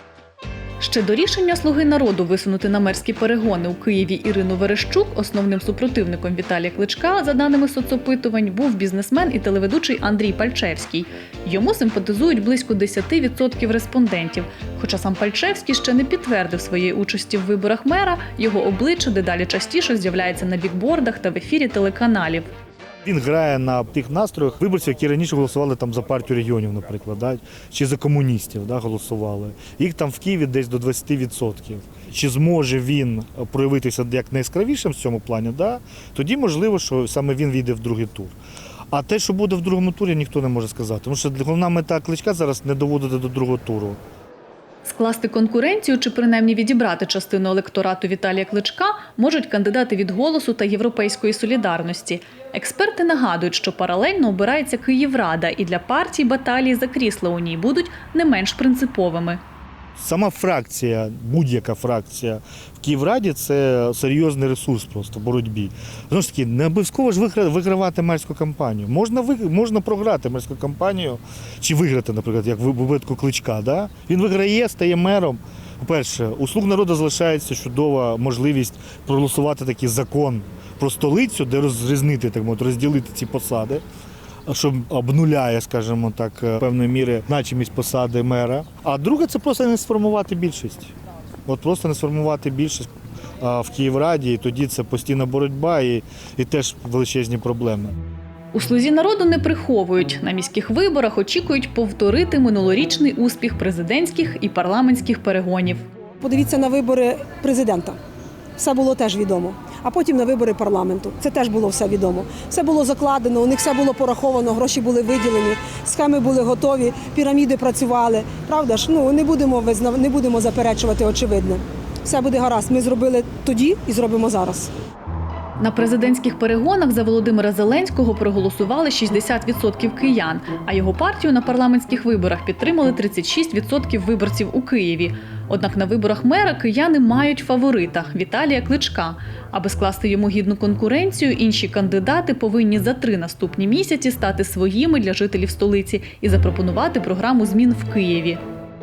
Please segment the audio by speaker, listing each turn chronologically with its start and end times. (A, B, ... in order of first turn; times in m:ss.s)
0:00.8-0:22.5 A
0:23.0-0:38.4 B
0:38.9-0:44.0 B
0:44.8-0:59.4 A
1:00.0-1:23.8 B
1:24.5-1:30.9 B
1:31.5-1:32.9 B
1:33.4-1:38.0 B
1:38.5-1:45.8 A
1:46.2-1:48.0 C
1:48.6-2:04.7 C
2:05.6-2:28.4 A